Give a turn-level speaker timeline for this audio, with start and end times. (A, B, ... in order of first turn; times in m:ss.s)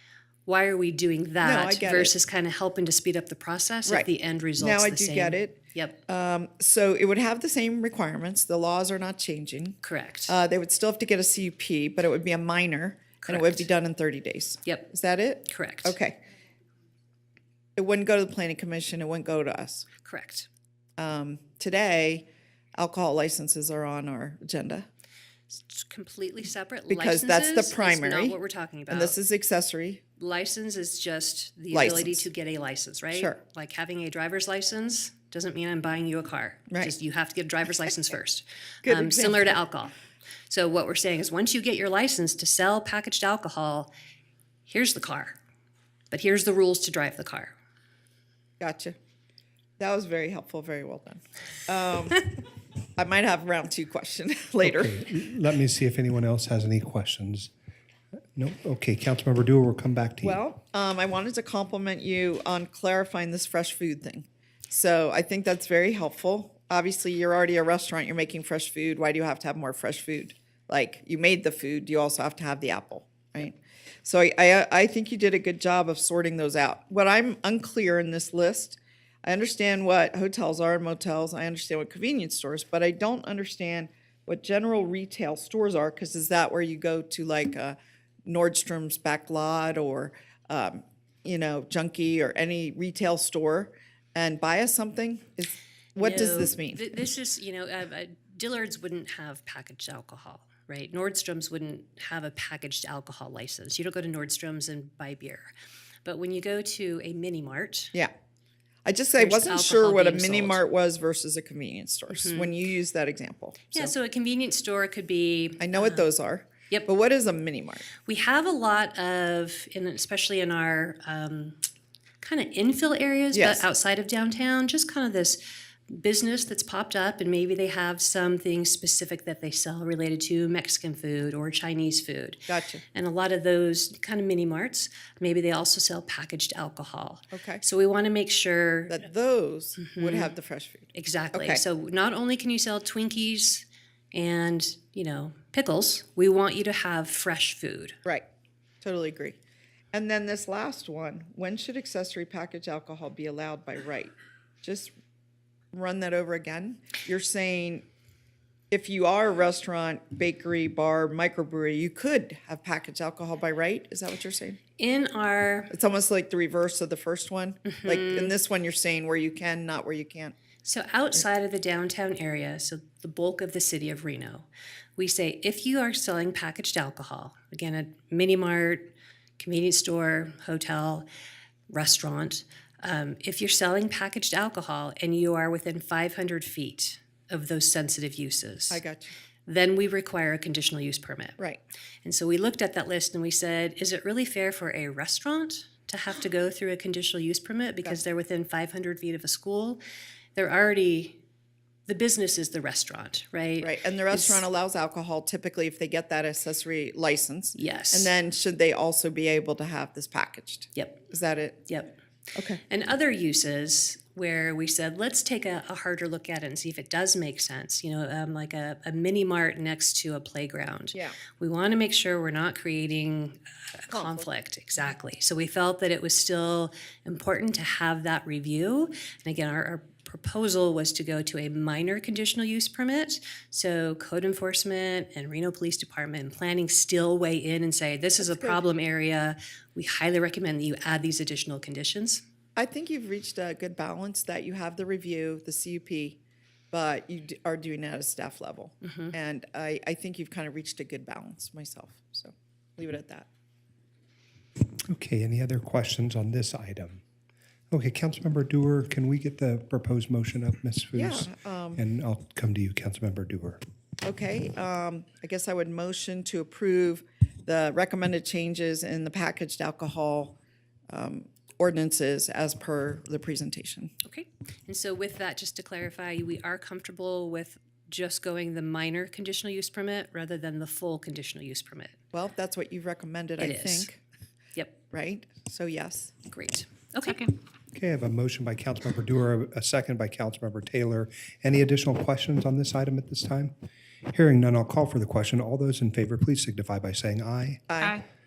0:00.5-0:06.0 A
0:01.4-0:02.1 B
0:04.6-0:16.2 B
0:09.8-0:10.3 A
0:13.2-0:13.7 A
0:15.5-0:16.0 A
0:17.8-0:19.9 B
0:20.0-0:20.5 A
0:21.0-0:24.9 B
0:25.5-0:29.2 A
0:26.9-0:28.4 B
0:28.9-0:30.0 B
0:30.2-0:39.9 A
0:31.7-0:32.3 B
0:33.1-0:33.4 B
0:38.8-0:39.6 B
0:40.5-0:43.9 A
0:44.7-0:45.4 A
0:46.1-0:47.5 A
0:48.6-0:49.0 B
0:49.8-0:52.3 B
0:53.0-0:55.0 B
0:54.6-0:57.5 C
0:58.4-1:00.4 C
1:00.2-1:36.8 B
1:36.0-1:45.5 A
1:46.0-1:47.9 A
1:48.8-1:53.9 B
1:49.2-1:50.6 A
1:52.1-1:52.5 A
1:53.7-1:56.1 A
1:55.6-1:57.9 B
1:58.0-2:01.6 A
2:02.2-2:19.0 A
2:03.3-2:03.6 B
2:12.5-2:12.8 B
2:17.3-2:17.6 B
2:18.9-2:21.6 B
2:19.8-2:20.3 A
2:20.9-2:28.0 A
2:28.8-2:29.4 B
2:29.9-2:34.9 B
2:35.7-2:37.8 B
2:38.7-2:44.6 B
2:44.8-2:45.7 A
2:45.7-2:50.4 B
2:47.7-2:48.4 A
2:50.6-3:01.1 A
3:01.7-3:08.8 A
3:08.7-3:09.1 B
3:09.5-3:11.4 A
3:12.0-3:19.8 A
3:20.4-3:21.2 A
3:21.9-3:24.4 A
3:23.6-3:31.7 B
3:27.6-3:28.1 A
3:30.8-3:31.0 A
3:31.7-3:32.0 A
3:32.4-3:32.6 B
3:32.6-4:02.2 A
3:43.9-3:44.3 B
3:58.2-3:58.6 B
4:02.6-4:06.2 B
4:06.7-4:13.3 B
4:08.8-4:09.1 A
4:14.9-4:17.0 C
4:17.7-4:23.6 C
4:20.9-4:21.8 B
4:24.0-4:30.4 B
4:30.9-4:33.9 B
4:34.0-4:42.0 A
4:42.1-4:44.0 B
4:43.4-4:43.9 A
4:44.9-4:46.1 B
4:46.3-4:47.3 A
4:47.7-4:53.5 C
4:54.1-4:57.6 C
4:57.7-4:58.0 B